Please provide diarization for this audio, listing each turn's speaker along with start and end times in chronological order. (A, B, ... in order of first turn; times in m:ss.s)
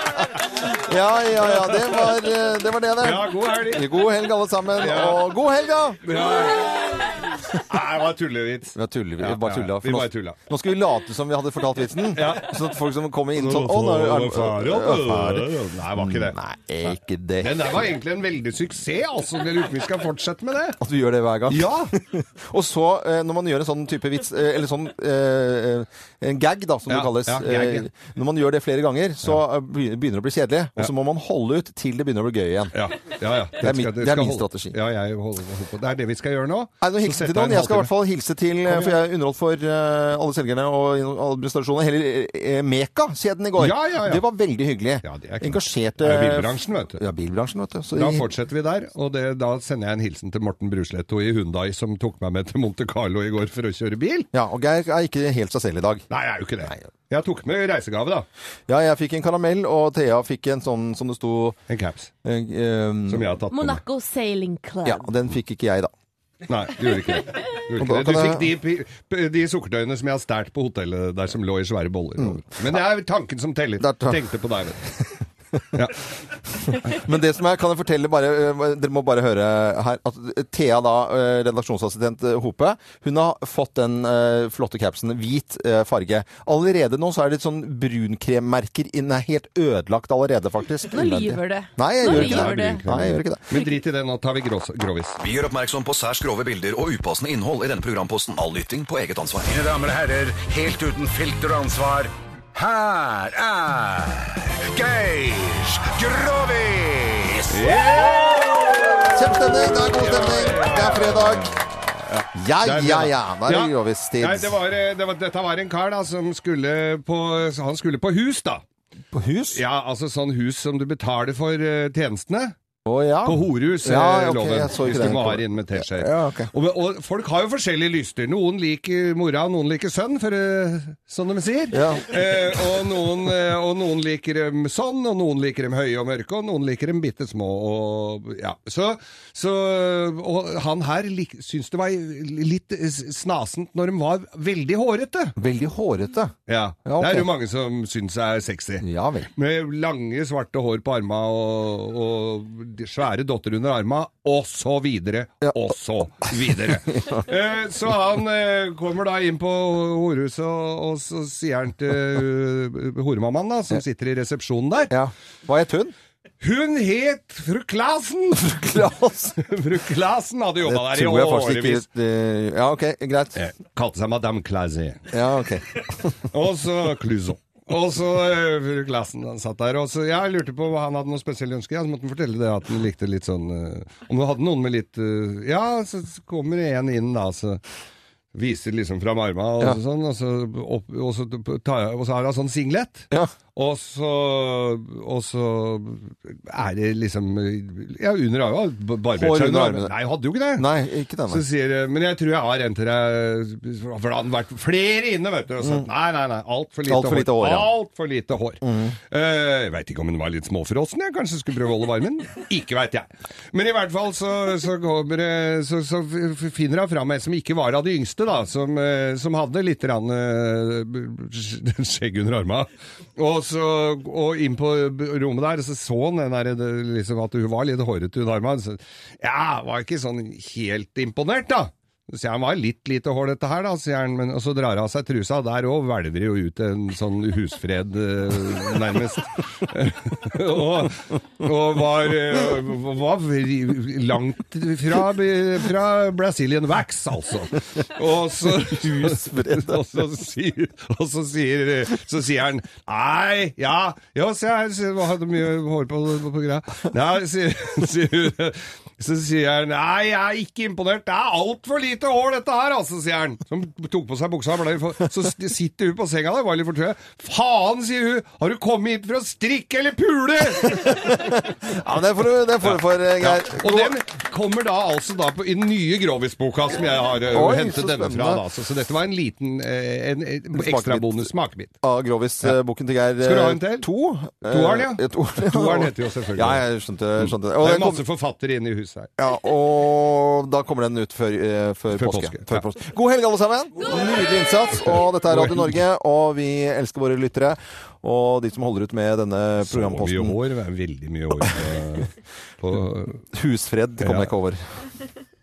0:00.4-0:06.0 A
0:01.5-0:02.1 B
0:03.0-0:03.9 B
0:04.8-0:05.2 B
0:06.0-0:10.4 B
0:08.8-0:17.7 A
0:12.2-0:12.6 B
0:13.4-0:16.4 B
0:17.4-0:20.8 B
0:20.8-0:32.8 A
0:21.5-0:21.9 B
0:26.9-0:27.9 B
0:32.7-0:37.9 B
0:33.6-0:34.8 A
0:36.8-0:48.3 A
0:38.7-0:39.0 B
0:43.6-0:44.2 B
0:45.0-0:47.0 B
0:47.9-0:54.3 B
0:54.3-0:56.0 A
0:56.1-0:58.3 B
0:58.7-1:01.6 A
1:01.7-1:02.1 B
1:02.2-1:03.3 A
1:03.1-1:03.8 B
1:03.5-1:05.0 C
1:04.8-1:05.9 A
1:06.5-1:15.0 B
1:07.8-1:08.5 A
1:13.8-1:14.2 A
1:15.7-1:16.0 B
1:16.6-1:33.4 A
1:30.9-1:32.8 C
1:32.0-1:35.2 B
1:35.2-1:39.7 D
1:39.5-1:47.7 E
1:47.5-1:58.6 B
1:49.1-1:51.6 A
1:52.3-1:54.6 A
1:59.1-1:59.6 A
1:59.5-2:02.5 B
2:02.9-2:06.5 A
2:03.2-2:25.4 B
2:11.7-2:12.2 A
2:25.4-2:26.4 A
2:26.5-2:44.9 B
2:26.9-2:27.3 A
2:28.8-2:29.3 A
2:44.9-2:45.9 A
2:46.4-2:51.8 B
2:48.4-2:49.5 A
2:50.6-2:53.4 A
2:53.4-2:55.1 B
2:55.1-2:55.8 A
2:56.0-3:07.6 B
3:08.3-3:20.6 B
3:19.2-3:19.9 A
3:20.6-3:21.4 A
3:21.3-4:31.7 B
3:26.9-3:27.7 A
3:28.6-3:29.0 A
4:08.5-4:09.9 A
4:30.6-4:34.0 A
4:32.6-4:41.7 B
4:37.3-4:38.5 A
4:40.5-4:41.3 A
4:41.8-4:48.0 A
4:43.2-4:43.9 B
4:44.5-4:46.6 B
4:47.2-4:49.1 B
4:49.2-5:00.4 A
4:51.9-4:52.7 B
4:55.0-4:55.8 B
4:59.6-5:03.2 B
5:03.3-5:04.6 A
5:04.0-5:04.3 B